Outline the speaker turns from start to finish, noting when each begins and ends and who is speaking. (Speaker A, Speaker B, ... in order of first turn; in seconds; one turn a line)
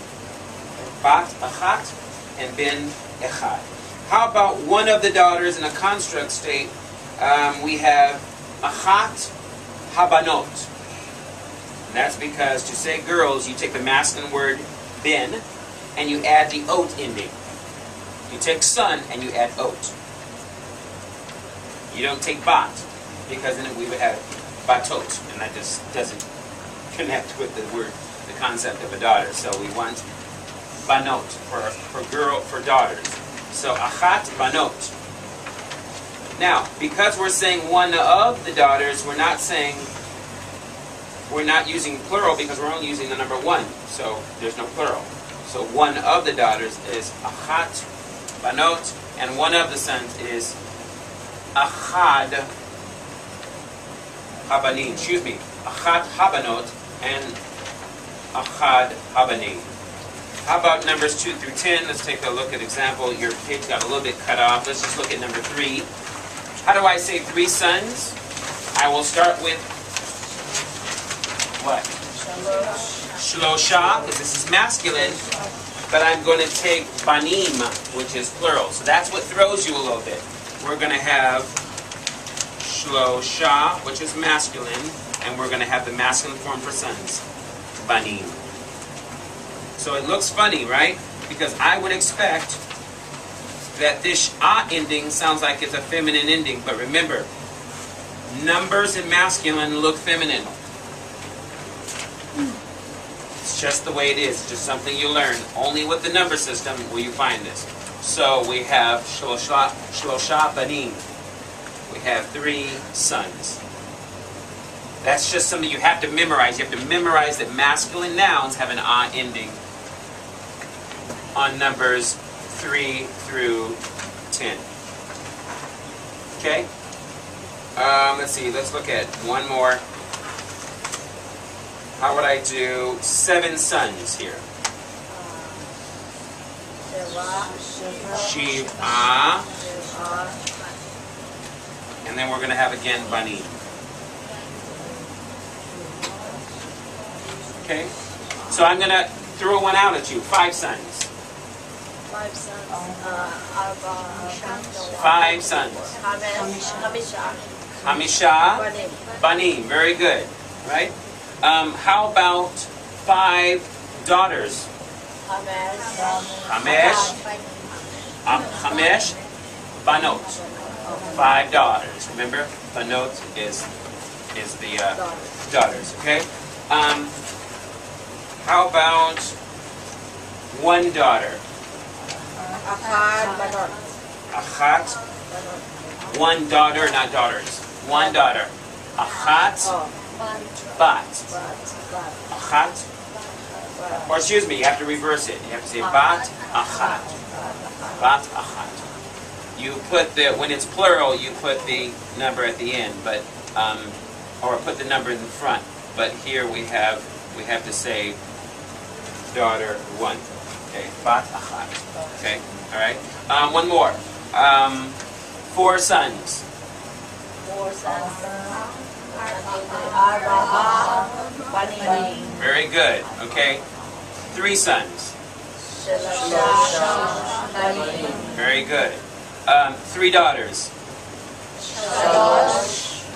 Speaker A: 0.9-9.3
Speaker A: 9.9-10.7
Speaker A: 11.9-15.4
Speaker A: 15.9-17.3
Speaker A: 18.3-19.9
Speaker A: 21.9-26.2
Speaker A: 26.9-30.0
Speaker A: 30.9-34.9
Speaker A: 36.4-39.9
Speaker A: 41.3-47.8
Speaker A: 48.4-50.5
Speaker A: 51.5-52.5
Speaker A: 54.5-57.4
Speaker A: 58.3-59.7
Speaker A: 60.4-65.9
Speaker A: 66.6-68.2
Speaker A: 68.7-69.6
Speaker A: 71.6-71.9
Speaker B: 72.3-72.8
Speaker A: 73.2-75.2
Speaker A: 75.9-81.5
Speaker A: 82.6-87.2
Speaker A: 87.8-88.4
Speaker A: 89.8-92.6
Speaker A: 93.7-97.3
Speaker A: 98.3-100.5
Speaker A: 103.4-111.0
Speaker A: 111.9-113.6
Speaker A: 115.0-119.6
Speaker A: 121.3-123.8
Speaker A: 124.3-124.6
Speaker A: 126.4-126.7
Speaker A: 127.8-129.8
Speaker A: 132.0-134.4
Speaker B: 135.1-135.7
Speaker B: 136.8-137.6
Speaker A: 138.1-139.5
Speaker B: 139.5-140.4
Speaker A: 142.0-143.5
Speaker A: 147.6-147.9
Speaker A: 148.5-151.1
Speaker B: 152.1-157.4
Speaker A: 154.9-155.9
Speaker A: 157.8-158.7
Speaker B: 158.4-159.0
Speaker A: 159.2-164.7
Speaker B: 165.2-166.2
Speaker A: 166.4-167.2
Speaker A: 168.2-169.2
Speaker A: 169.8-170.4
Speaker B: 170.6-171.1
Speaker A: 171.1-173.7
Speaker A: 174.3-177.1
Speaker B: 175.0-175.3
Speaker A: 178.4-179.3
Speaker A: 180.5-181.4
Speaker B: 182.6-183.8
Speaker A: 184.3-185.0
Speaker B: 185.3-185.6
Speaker A: 186.1-189.7
Speaker B: 189.7-189.9
Speaker A: 190.7-191.3
Speaker B: 191.3-192.2
Speaker A: 192.3-192.8
Speaker B: 193.7-194.0
Speaker A: 194.1-197.1
Speaker B: 197.4-197.9
Speaker A: 197.9-198.9
Speaker A: 199.6-208.2
Speaker A: 209.3-214.9
Speaker A: 215.5-216.4
Speaker B: 217.4-218.6
Speaker B: 219.1-222.3
Speaker A: 222.4-223.6
Speaker A: 224.3-225.1
Speaker B: 225.7-228.2
Speaker A: 228.3-230.7
Speaker B: 231.9-232.8